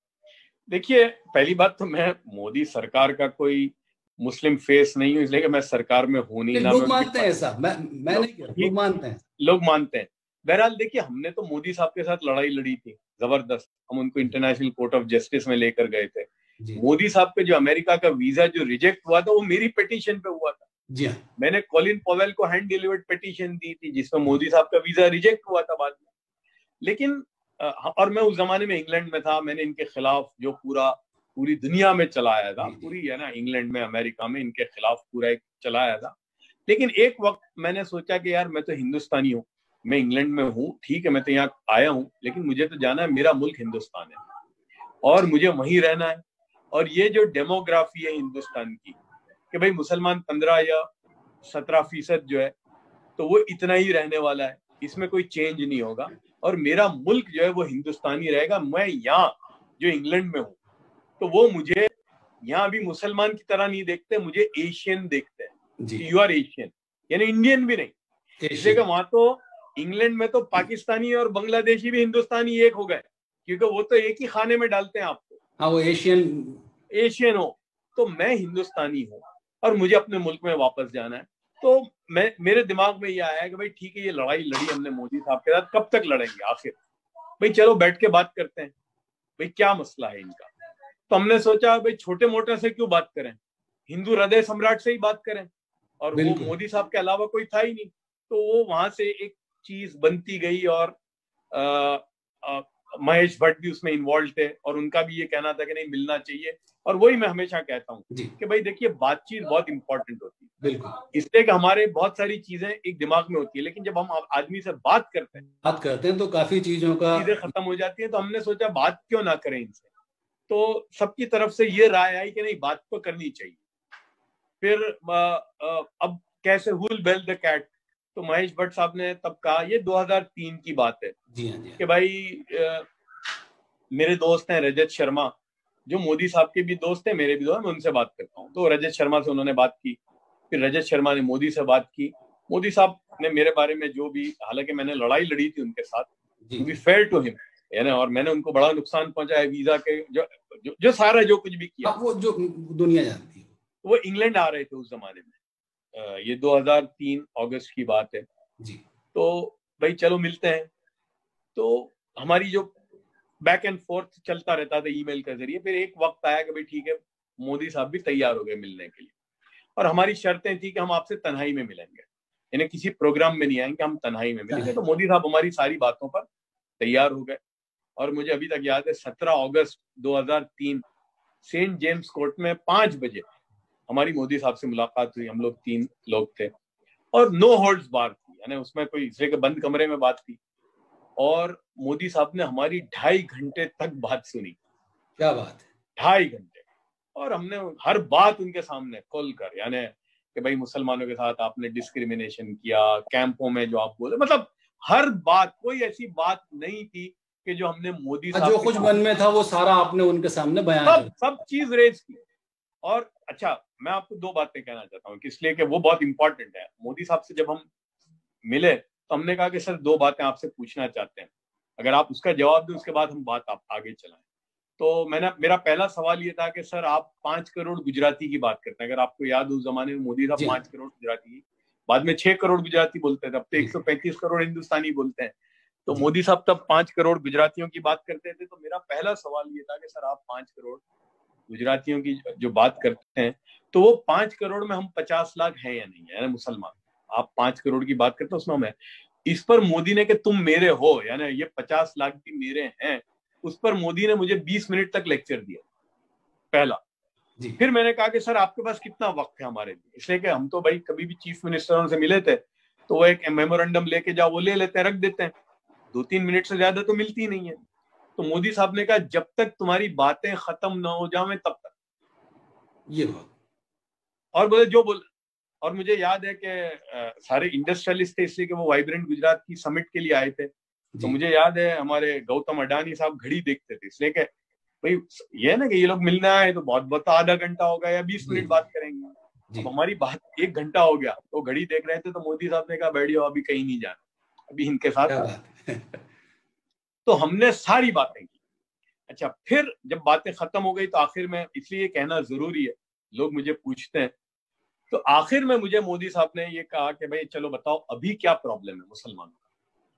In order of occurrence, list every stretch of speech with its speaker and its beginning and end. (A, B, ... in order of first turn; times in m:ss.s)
0:00.7-0:07.4 A
0:06.5-0:09.2 B
0:08.1-0:08.7 A
0:09.4-0:20.6 A
0:20.9-0:21.2 B
0:21.4-0:26.0 A
0:26.8-0:36.1 A
0:32.6-0:32.9 B
0:36.7-0:44.2 A
0:45.0-0:46.2 A
0:46.7-0:49.0 A
0:49.5-0:50.9 A
0:51.4-0:52.5 A
0:53.2-1:00.6 A
1:01.2-1:01.9 A
1:02.4-1:07.9 A
1:05.8-1:06.1 B
1:08.4-1:08.8 B
1:08.6-1:15.4 A
1:15.6-1:16.6 B
1:16.9-1:26.8 A
1:27.4-1:28.7 A
1:29.4-1:30.5 A
1:31.1-1:35.5 A
1:36.0-1:41.0 A
1:36.2-1:36.5 B
1:41.5-1:50.5 A
1:50.6-1:51.0 B
1:51.1-1:55.4 A
1:55.6-1:57.5 B
1:57.1-1:59.8 A
2:00.5-2:03.6 A
2:04.6-2:11.2 A
2:11.3-2:11.8 B
2:11.8-2:12.9 A
2:13.9-2:15.3 A
2:15.9-2:20.0 A
2:20.5-2:26.1 A
2:26.6-2:32.0 A
2:31.8-2:33.5 B
2:33.8-2:35.3 A
2:36.0-2:38.2 A
2:39.1-2:40.7 A
2:41.6-2:42.7 A
2:43.4-2:49.1 A
2:49.8-2:56.3 A
2:56.8-2:57.4 A
2:58.0-3:00.8 A
3:01.4-3:03.3 A
3:03.9-3:06.5 A
3:07.1-3:10.4 A
3:11.2-3:14.6 A
3:15.2-3:15.6 B
3:16.0-3:16.6 A
3:17.2-3:28.9 A
3:28.3-3:31.1 B
3:30.8-3:32.2 A
3:32.8-3:37.7 A
3:38.4-3:44.2 A
3:44.8-3:55.3 A
3:55.8-4:00.8 A
4:01.5-4:08.7 A
4:09.3-4:15.6 A
4:16.5-4:16.8 A
4:17.6-4:25.3 A
4:25.9-4:27.6 A
4:28.2-4:31.7 A
4:32.9-4:33.3 B
4:34.4-4:35.1 A
4:35.6-4:40.5 A
4:41.0-4:44.3 A
4:44.8-4:55.3 A
4:48.2-4:48.5 B
4:55.1-4:56.0 B
4:57.1-4:58.3 A
4:59.1-5:04.1 A
5:04.9-5:09.4 A